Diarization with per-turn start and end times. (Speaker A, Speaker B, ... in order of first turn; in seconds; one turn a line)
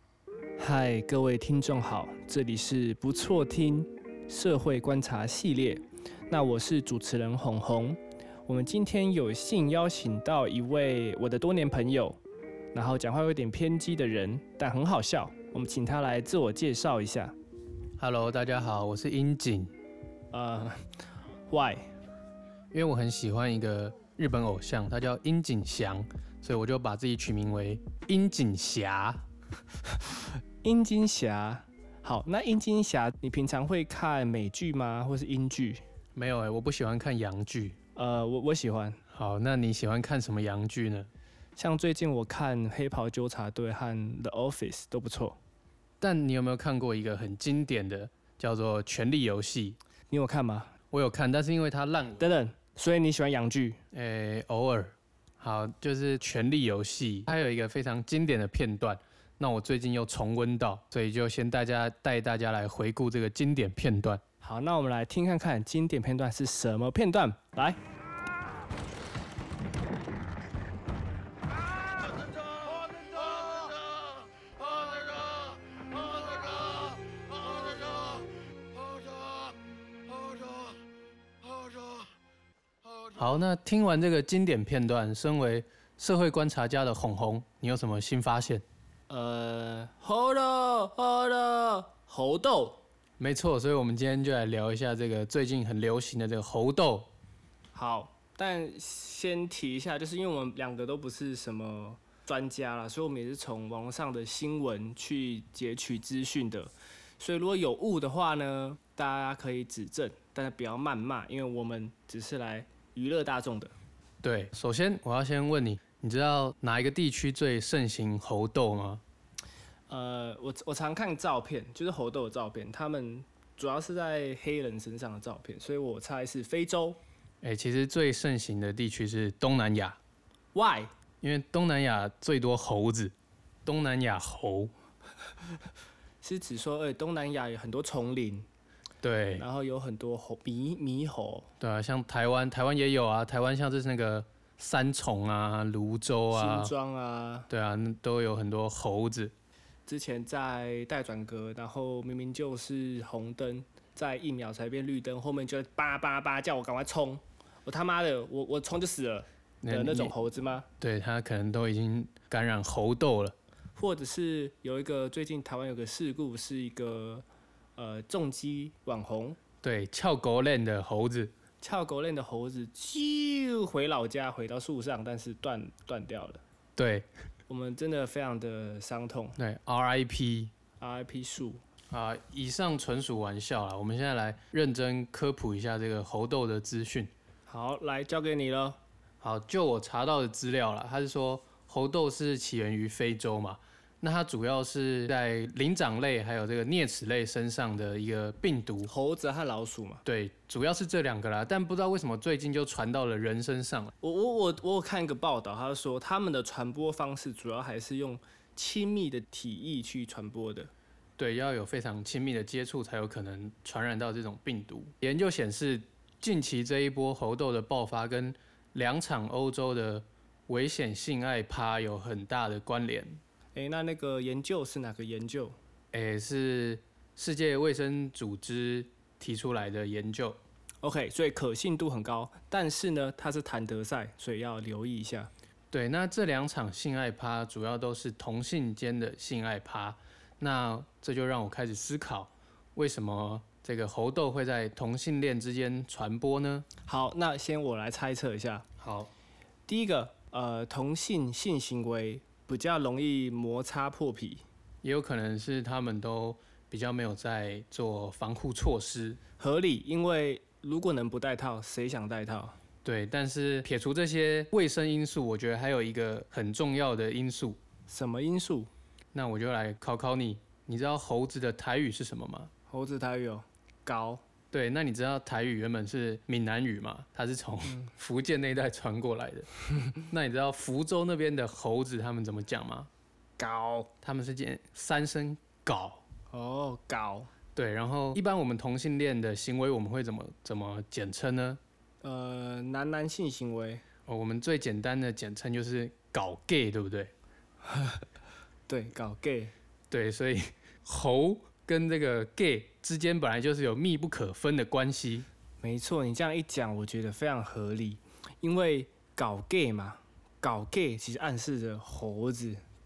Speaker A: 0.6-12.2
Speaker A: 12.7-17.3
Speaker B: 18.0-19.7
Speaker A: 20.3-20.8
Speaker A: 21.5-21.9
Speaker B: 22.7-29.2
Speaker A: 30.6-35.8
Speaker B: 36.1-37.8
Speaker A: 38.0-39.0
Speaker B: 39.1-41.1
Speaker A: 41.6-45.4
Speaker B: 46.0-49.8
Speaker A: 50.1-50.7
Speaker B: 50.9-52.3
Speaker A: 52.2-53.8
Speaker B: 53.9-64.2
Speaker A: 64.4-67.8
Speaker B: 83.1-88.6
Speaker A: 89.1-92.8
Speaker B: 93.2-97.1
Speaker A: 97.7-113.7
Speaker B: 114.2-119.0
Speaker A: 119.9-127.0
Speaker B: 127.4-130.0
Speaker A: 130.5-130.9
Speaker B: 131.2-133.1
Speaker B: 133.6-134.7
Speaker A: 136.2-138.5
Speaker B: 139.0-139.4
Speaker A: 139.4-141.5
Speaker B: 141.6-146.7
Speaker A: 146.3-147.5
Speaker B: 147.5-149.3
Speaker A: 149.9-160.7
Speaker B: 159.6-160.1
Speaker B: 160.8-163.3
Speaker A: 163.8-167.2
Speaker A: 167.8-169.4
Speaker B: 169.6-171.3
Speaker A: 171.6-176.4
Speaker B: 176.8-177.1
Speaker A: 177.5-179.4
Speaker B: 179.4-180.5
Speaker A: 180.8-181.6
Speaker B: 181.9-187.1
Speaker A: 187.5-188.8
Speaker B: 189.2-198.9
Speaker A: 198.9-200.0
Speaker B: 200.0-203.9
Speaker A: 204.0-210.7
Speaker B: 211.2-223.2
Speaker A: 223.5-225.6
Speaker B: 225.9-230.4
Speaker A: 230.8-235.3
Speaker B: 235.7-246.7
Speaker A: 246.8-248.6
Speaker B: 248.8-249.1
Speaker A: 249.7-254.4
Speaker B: 254.8-259.2
Speaker A: 259.4-262.6
Speaker B: 262.8-267.6
Speaker A: 267.9-268.7
Speaker B: 269.1-272.5
Speaker A: 272.7-274.2
Speaker B: 274.5-282.9
Speaker A: 283.4-283.9
Speaker B: 284.0-286.0
Speaker A: 286.3-287.3
Speaker B: 287.5-291.6
Speaker A: 292.0-293.8
Speaker B: 294.1-297.1
Speaker A: 297.6-298.0
Speaker A: 298.7-299.5
Speaker B: 299.9-305.3
Speaker A: 305.6-312.6